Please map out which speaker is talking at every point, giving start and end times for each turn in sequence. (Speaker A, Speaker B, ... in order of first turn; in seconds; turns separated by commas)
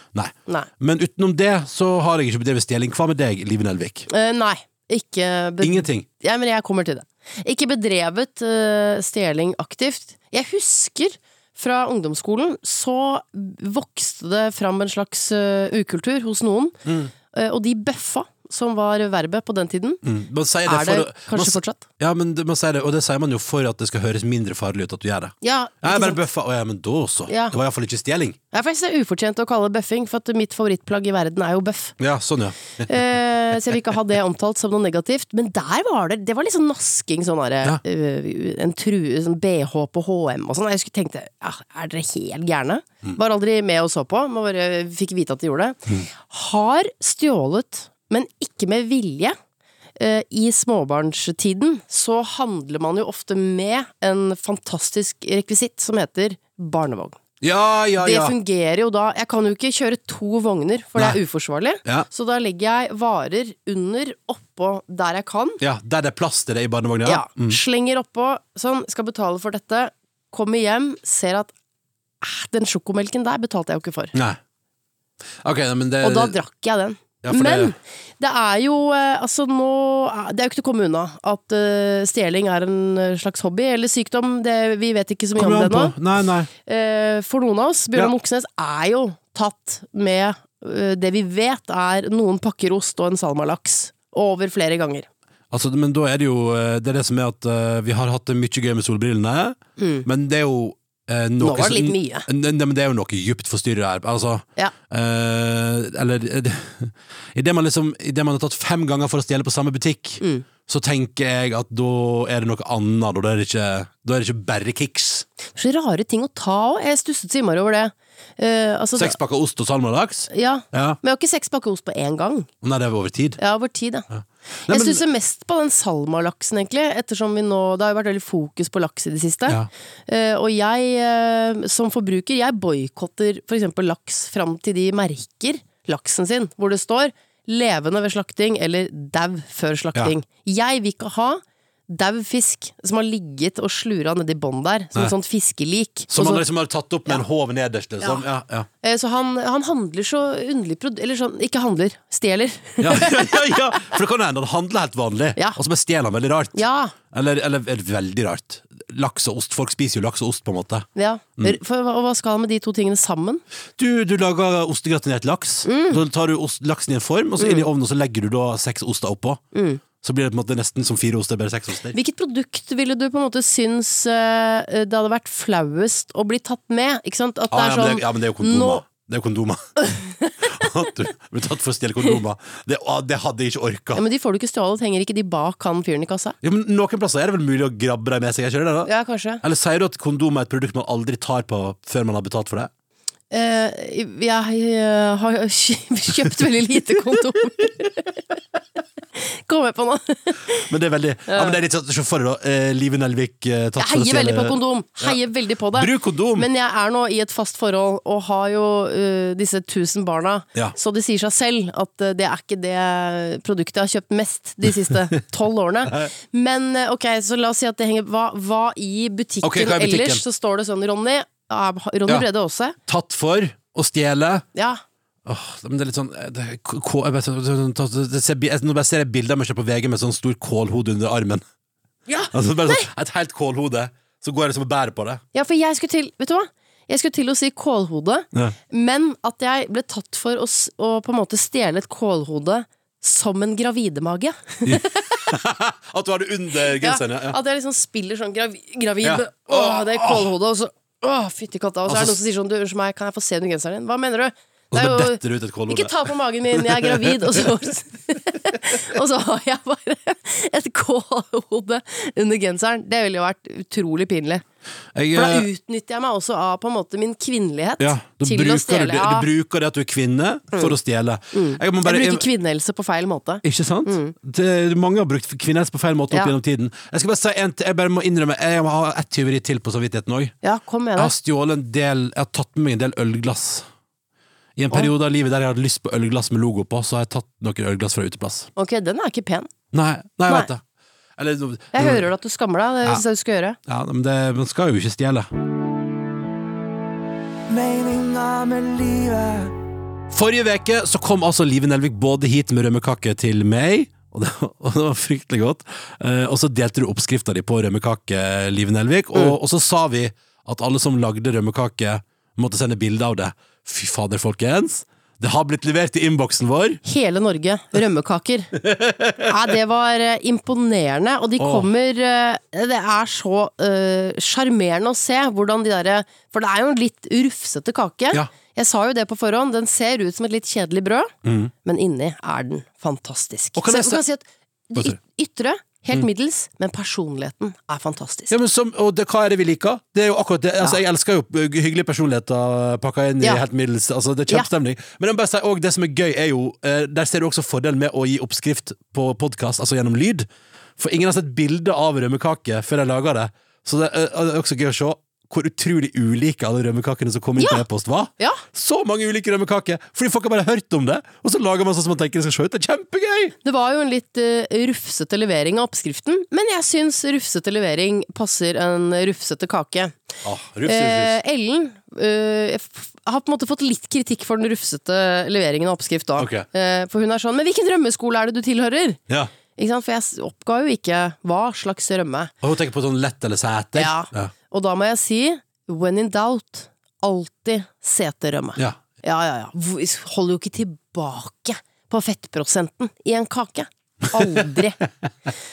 Speaker A: 0.1-4.1, Speaker B: 4.1-16.8, Speaker A: 5.6-6.0, Speaker A: 16.8-17.1, Speaker B: 17.3-20.0, Speaker A: 20.0-28.4, Speaker B: 20.6-21.8, Speaker B: 25.4-26.2, Speaker B: 27.3-27.6, Speaker B: 28.5-31.9, Speaker A: 32.0-32.9, Speaker B: 32.9-49.4, Speaker B: 50.0-57.2, Speaker A: 57.4-58.4, Speaker B: 58.0-65.6, Speaker A: 61.0-61.2, Speaker A: 65.6-67.6, Speaker B: 67.0-71.5, Speaker B: 72.2-74.1, Speaker A: 74.1-74.4, Speaker A: 75.4-76.3, Speaker B: 76.0-85.9, Speaker A: 77.2-77.7, Speaker A: 85.3-86.5, Speaker B: 86.6-95.1, Speaker A: 95.5-115.2, Speaker B: 99.8-100.0, Speaker B: 101.4-102.3, Speaker B: 110.2-110.5, Speaker B: 115.5-119.2, Speaker A: 119.0-121.0, Speaker B: 120.3-122.5, Speaker A: 122.6-123.4, Speaker B: 123.4-124.1, Speaker A: 124.1-125.0, Speaker B: 124.7-146.4, Speaker A: 146.1-148.7, Speaker B: 148.8-153.9, Speaker A: 152.8-160.9, Speaker B: 156.5-156.9, Speaker B: 160.9-163.4, Speaker A: 163.8-169.4, Speaker B: 165.6-166.0, Speaker B: 167.4-167.7, Speaker B: 169.5-169.8, Speaker A: 170.0-171.9, Speaker B: 171.9-178.8, Speaker A: 177.5-179.6, Speaker B: 179.8-180.6, Speaker A: 180.4-184.0, Speaker B: 183.9-186.3, Speaker A: 186.4-188.9, Speaker B: 188.8-189.4, Speaker A: 189.4-192.7, Speaker B: 193.3-198.2, Speaker B: 199.1-200.7, Speaker A: 200.7-205.2, Speaker B: 201.3-201.6, Speaker B: 203.8-222.8, Speaker A: 205.7-206.5, Speaker A: 219.4-220.2, Speaker A: 222.9-224.4, Speaker B: 224.5-224.8, Speaker A: 225.2-231.4, Speaker B: 232.1-232.9, Speaker A: 232.3-235.2, Speaker B: 235.3-245.3, Speaker A: 244.6-247.4, Speaker B: 246.7-264.4, Speaker A: 249.0-250.3, Speaker A: 251.9-252.2, Speaker A: 254.7-257.4, Speaker A: 264.9-265.5, Speaker B: 265.1-269.3, Speaker A: 267.8-272.2, Speaker B: 271.3-274.1, Speaker A: 273.4-280.3, Speaker B: 280.4-281.1, Speaker A: 280.9-283.7, Speaker A: 284.6-288.5, Speaker B: 288.6-289.5, Speaker A: 289.7-290.6, Speaker A: 291.2-292.1, Speaker B: 291.7-293.6, Speaker A: 293.7-295.3, Speaker C: 297.5-299.5, Speaker A: 300.1-316.8, Speaker B: 316.8-318.6, Speaker A: 318.6-319.3, Speaker B: 319.2-331.1, Speaker A: 321.4-321.7, Speaker A: 331.2-331.5, Speaker B: 331.6-338.3, Speaker A: 333.6-334.0, Speaker A: 338.3-350.3, Speaker A: 350.8-363.3, Speaker B: 357.4-357.6, Speaker B: 363.4-370.0, Speaker A: 370.2-371.2, Speaker B: 370.6-379.0, Speaker A: 376.2-376.5, Speaker B: 379.5-382.3, Speaker A: 382.4-384.3, Speaker B: 383.8-394.8, Speaker A: 394.1-394.4